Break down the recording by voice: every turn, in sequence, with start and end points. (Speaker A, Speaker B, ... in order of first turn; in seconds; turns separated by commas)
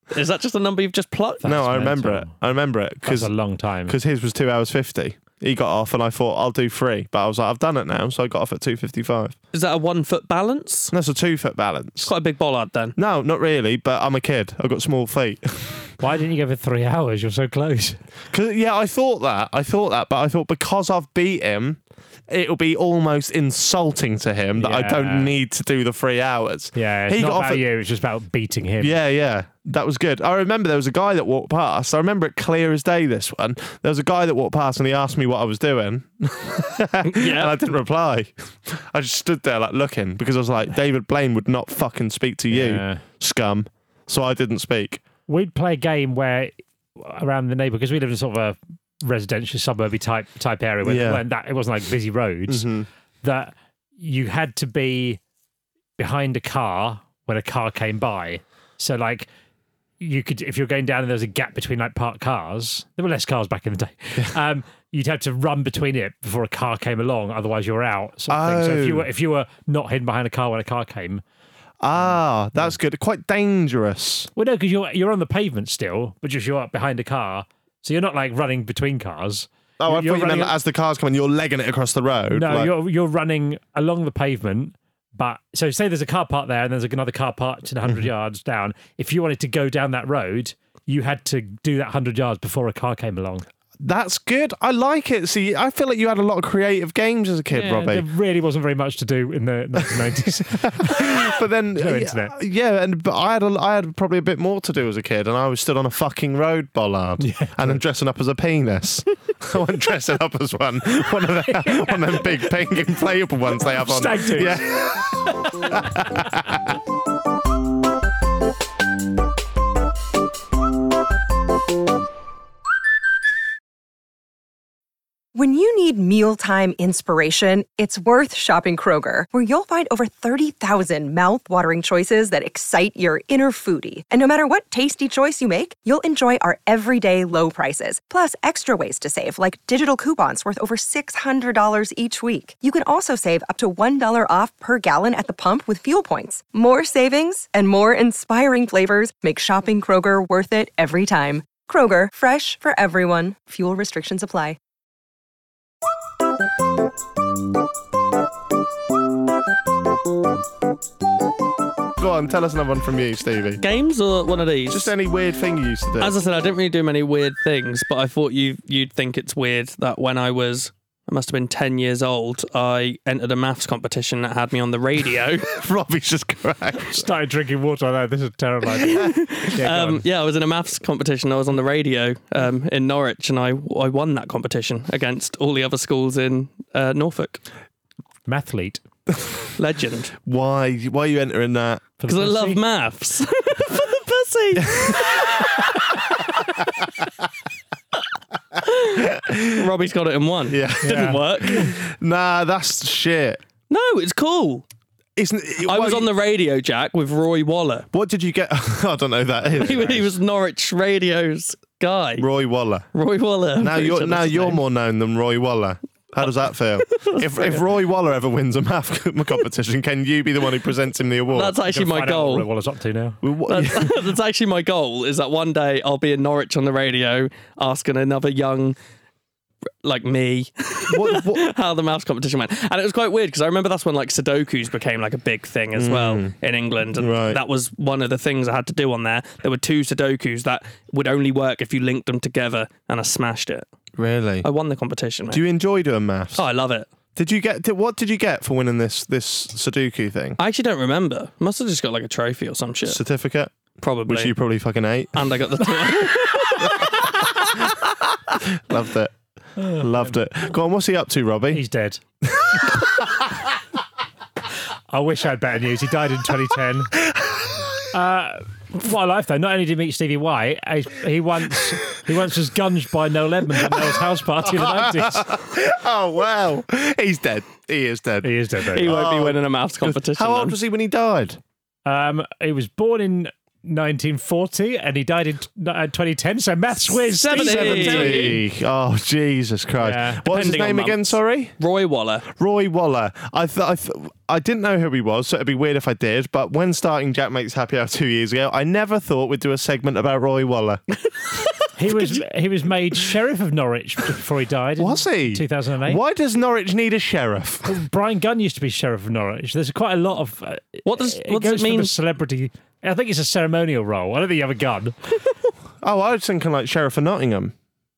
Speaker A: 0.1-1.6, Speaker B: 1.4-2.3, Speaker C: 1.4-3.3, Speaker B: 3.0-4.0, Speaker C: 3.9-9.3, Speaker A: 9.5-10.9, Speaker C: 10.9-12.1, Speaker A: 12.0-12.9, Speaker C: 13.0-15.9, Speaker B: 16.0-18.0, Speaker C: 18.3-27.6, Speaker B: 24.6-25.3, Speaker B: 26.8-29.0, Speaker C: 28.8-45.0, Speaker A: 37.1-37.5, Speaker B: 42.5-43.0, Speaker B: 45.3-52.7, Speaker C: 50.8-51.2, Speaker C: 52.5-52.9, Speaker B: 53.2-55.2, Speaker B: 56.0-59.3, Speaker B: 60.0-71.2, Speaker C: 68.3-69.1, Speaker C: 71.8-74.3, Speaker B: 72.0-72.7, Speaker B: 74.4-80.5, Speaker C: 79.8-82.7, Speaker B: 82.3-93.5, Speaker C: 93.8-98.0, Speaker B: 97.5-102.3, Speaker C: 100.6-116.7, Speaker B: 107.2-107.8, Speaker B: 111.5-112.5, Speaker B: 113.8-114.6, Speaker D: 125.3-154.6, Speaker C: 162.0-163.6, Speaker A: 163.6-164.9, Speaker C: 164.7-166.2, Speaker A: 166.0-175.5, Speaker C: 175.5-177.1, Speaker B: 176.9-180.0, Speaker A: 178.8-187.4, Speaker B: 188.3-188.8, Speaker A: 189.6-190.1, Speaker C: 190.2-191.9, Speaker B: 192.0-192.6, Speaker A: 192.1-195.8, Speaker C: 194.6-195.2, Speaker A: 198.6-201.7, Speaker C: 199.0-199.7, Speaker C: 200.5-203.4, Speaker B: 200.8-201.7, Speaker A: 203.7-204.6, Speaker C: 205.2-206.1, Speaker A: 205.7-207.9, Speaker C: 207.9-210.2, Speaker A: 209.6-212.3, Speaker C: 212.2-212.9, Speaker A: 212.9-214.6, Speaker C: 213.6-221.6, Speaker A: 216.9-217.6, Speaker A: 221.3-222.5, Speaker B: 221.6-223.2, Speaker C: 223.2-224.1, Speaker A: 223.5-228.8, Speaker A: 229.8-243.7, Speaker C: 230.9-231.4, Speaker C: 235.8-236.3, Speaker C: 236.9-237.4, Speaker C: 244.0-244.5, Speaker A: 244.4-245.4, Speaker C: 245.3-246.4, Speaker A: 246.4-246.9, Speaker C: 247.2-250.4, Speaker A: 250.4-253.0, Speaker C: 252.9-253.5, Speaker A: 253.8-254.3, Speaker C: 254.1-255.2, Speaker A: 255.1-257.6, Speaker C: 256.6-256.9, Speaker C: 258.3-261.6, Speaker B: 259.6-260.1, Speaker B: 261.5-262.0, Speaker C: 262.3-263.0, Speaker B: 264.9-267.0, Speaker C: 267.0-267.7, Speaker B: 267.9-275.4, Speaker C: 273.6-281.4, Speaker B: 278.2-278.9, Speaker A: 278.7-280.6, Speaker B: 281.9-288.4, Speaker A: 287.1-288.4, Speaker C: 287.3-291.5, Speaker B: 289.8-290.2, Speaker A: 290.3-292.3, Speaker C: 292.3-300.8, Speaker B: 301.8-306.0, Speaker C: 304.8-307.7, Speaker B: 307.6-315.0, Speaker A: 310.9-311.9, Speaker C: 315.8-317.5